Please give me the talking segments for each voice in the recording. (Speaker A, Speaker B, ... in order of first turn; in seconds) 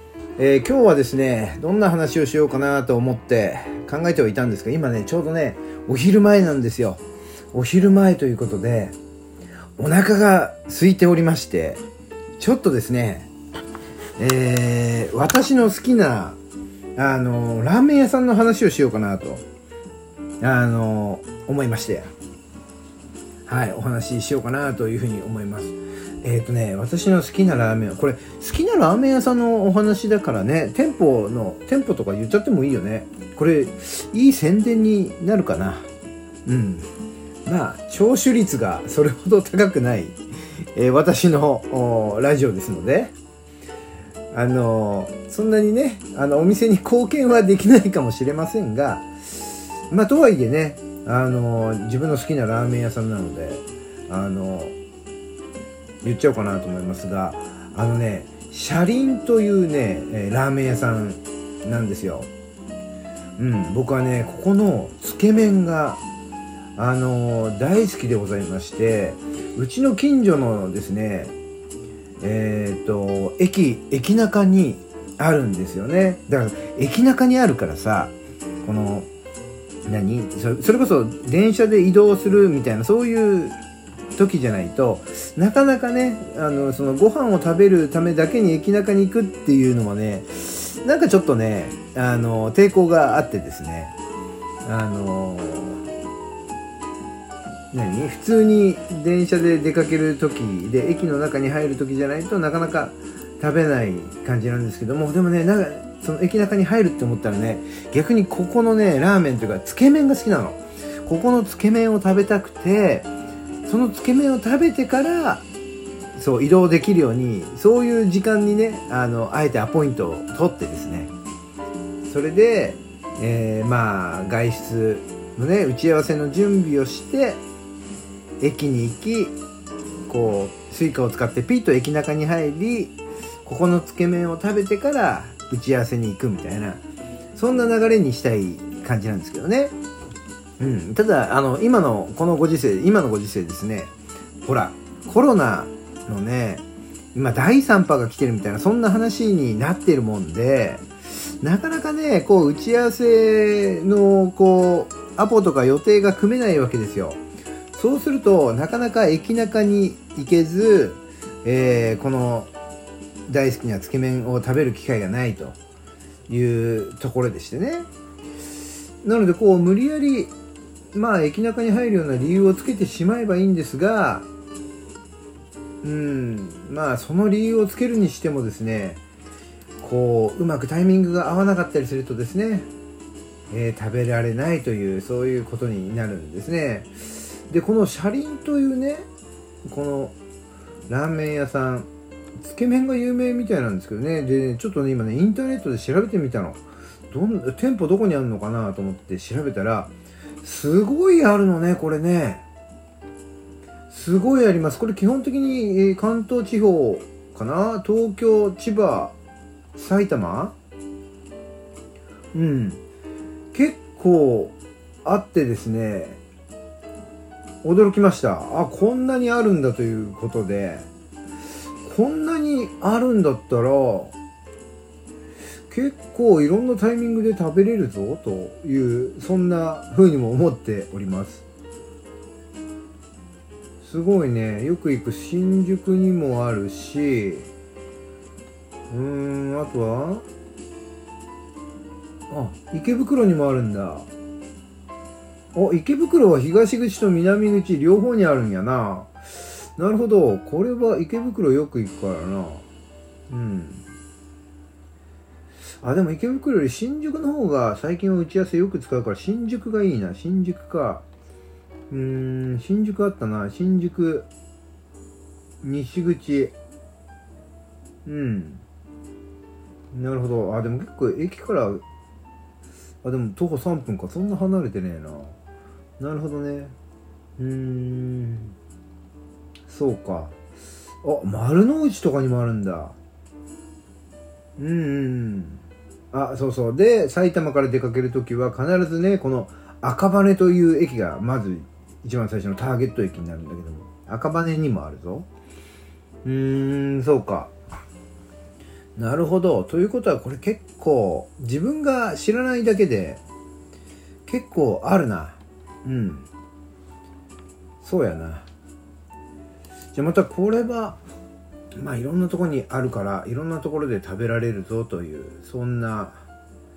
Speaker A: 0.4-7.0, 7.5-8.9, 9.8-11.8, 12.4-13.3, 14.2-16.4, 16.9-19.4, 20.4-22.1, 23.5-35.9, 36.5-36.9, 37.5-40.2, 40.7-43.1, 44.3-54.7, 56.0-62.3, 63.4-66.0, 66.8-71.3, 72.2-79.1, 79.8-83.6, 84.1-93.9, 94.6-95.8, 97.7-113.1, 113.7-115.4, 116.1-121.1, 122.0-127.4, 128.4-129.3, 130.1-136.8, 137.3-139.7, 140.6-146.6, 147.1-150.9, 151.4-157.2, 157.7-162.5, 163.3-165.6, 166.3-167.9, 169.0-170.3, 170.9-174.2, 175.8-179.0, 179.8-182.7, 183.5-189.1, 189.6-190.1, 190.9-191.9, 192.4-202.4, 203.9-209.2, 209.7-210.5, 212.3-212.8, 213.5-216.2, 217.6-220.9, 221.8-224.1, 225.7-231.4, 233.8-237.5, 238.9-240.2, 242.3-244.1, 245.5-252.6, 253.3-253.8, 255.8-261.0, 261.9-264.3, 265.6-266.5, 268.1-268.6, 269.9-271.8, 273.0-275.4, 276.0-276.7, 277.4-278.5, 279.6-280.4, 281.0-282.9, 284.6-295.3, 296.2-297.5, 298.9-303.2, 304.2-306.3, 307.8-308.4, 309.9-311.0, 311.8-316.2